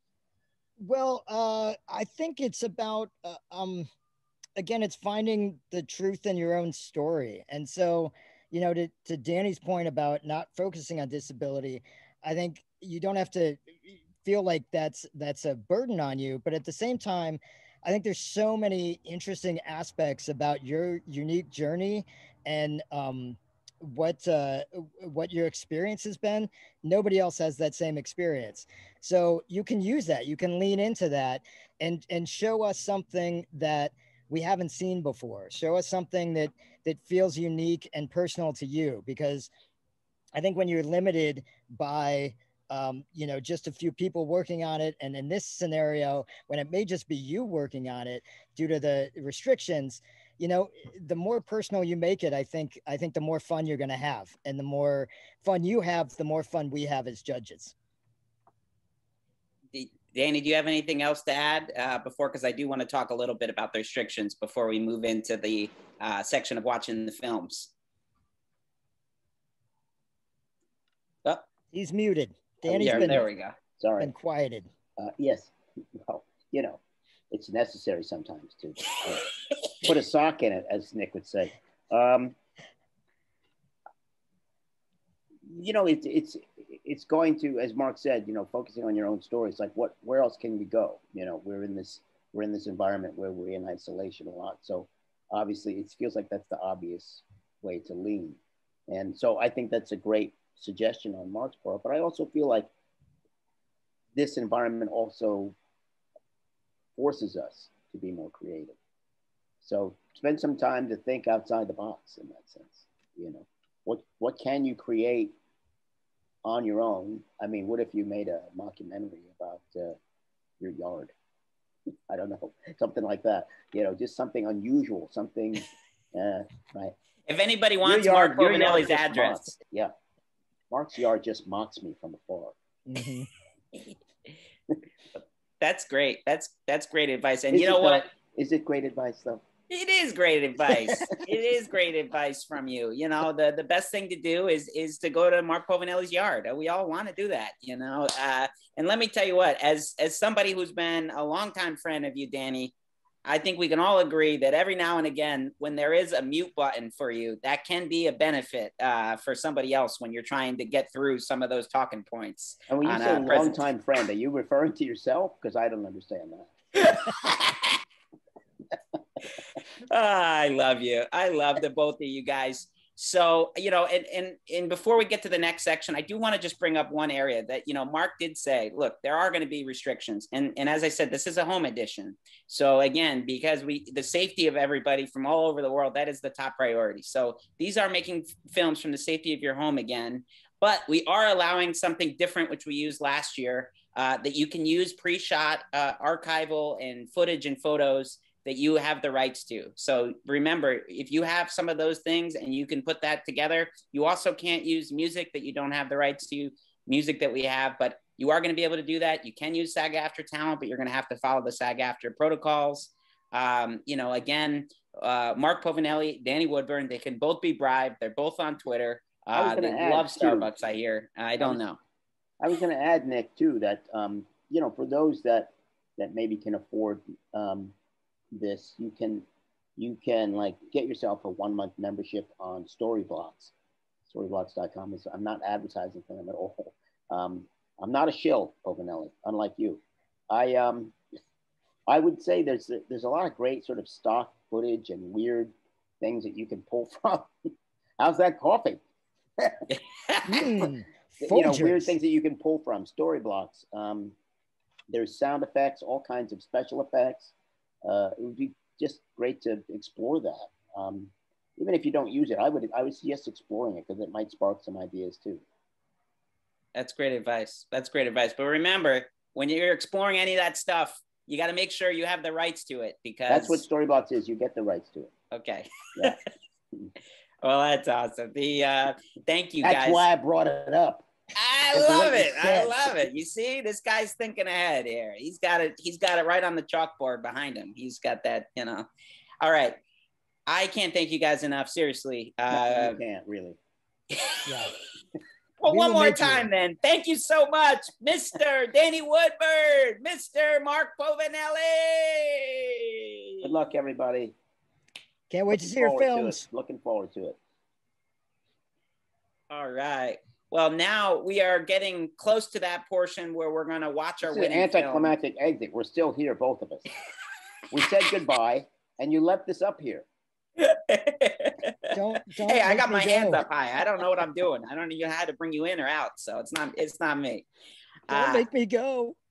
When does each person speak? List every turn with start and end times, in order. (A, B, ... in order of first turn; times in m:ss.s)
0:00.8-0:03.9 A
0:04.6-0:39.5 A
0:40.3-0:57.7 A
0:59.7-1:07.7 B
1:11.7-1:13.2 A
1:12.7-1:13.5 B
1:12.8-1:13.1 C
1:13.8-1:14.1 C
1:14.0-1:14.7 A
1:15.0-1:16.8 C
1:17.3-1:19.2 C
1:19.8-1:22.3 C
1:25.5-1:42.7 C
1:44.1-1:45.5 C
1:47.0-1:48.8 C
1:49.6-1:55.3 C
1:56.4-2:00.0 C
2:00.6-2:01.1 C
2:02.1-2:06.9 C
2:07.3-2:09.5 B
2:07.8-2:09.9 C
2:10.7-2:12.5 C
2:12.9-2:13.3 A
2:15.6-2:18.1 B
2:17.5-2:19.4 C
2:19.7-2:32.7 B
2:20.7-2:21.1 C
2:33.2-2:43.7 B
2:42.7-2:46.5 C
2:46.8-2:47.8 B
2:49.9-3:41.8 B
3:39.3-3:40.5 C
3:42.4-3:47.7 C
3:48.3-3:49.2 C
3:49.8-3:53.5 C
3:54.1-4:00.9 C
4:01.9-4:07.3 C
4:08.0-4:08.8 C
4:09.7-4:10.4 B
4:10.3-4:11.9 A
4:11.2-4:14.1 C
4:14.9-4:17.3 C
4:17.8-4:25.4 C
4:26.7-4:33.6 B
4:33.3-4:35.1 C
4:35.3-4:36.2 B
4:37.4-4:40.0 B
4:39.6-4:41.0 C
4:41.4-4:48.9 B
4:41.7-4:42.8 C
4:49.4-4:49.8 B
4:50.5-4:53.0 B
4:52.5-4:53.6 C
4:54.4-4:54.7 A
4:55.6-5:03.5 B
4:55.7-4:56.5 A
5:03.4-5:04.3 C
5:05.3-5:06.4 A
5:05.5-5:07.4 C
5:09.5-5:15.1 B
5:14.2-5:16.9 C
5:17.7-5:20.0 C
5:20.6-5:21.7 B
5:21.9-5:23.4 A
5:22.4-5:27.4 B
5:28.1-5:28.4 B
5:28.1-5:29.2 A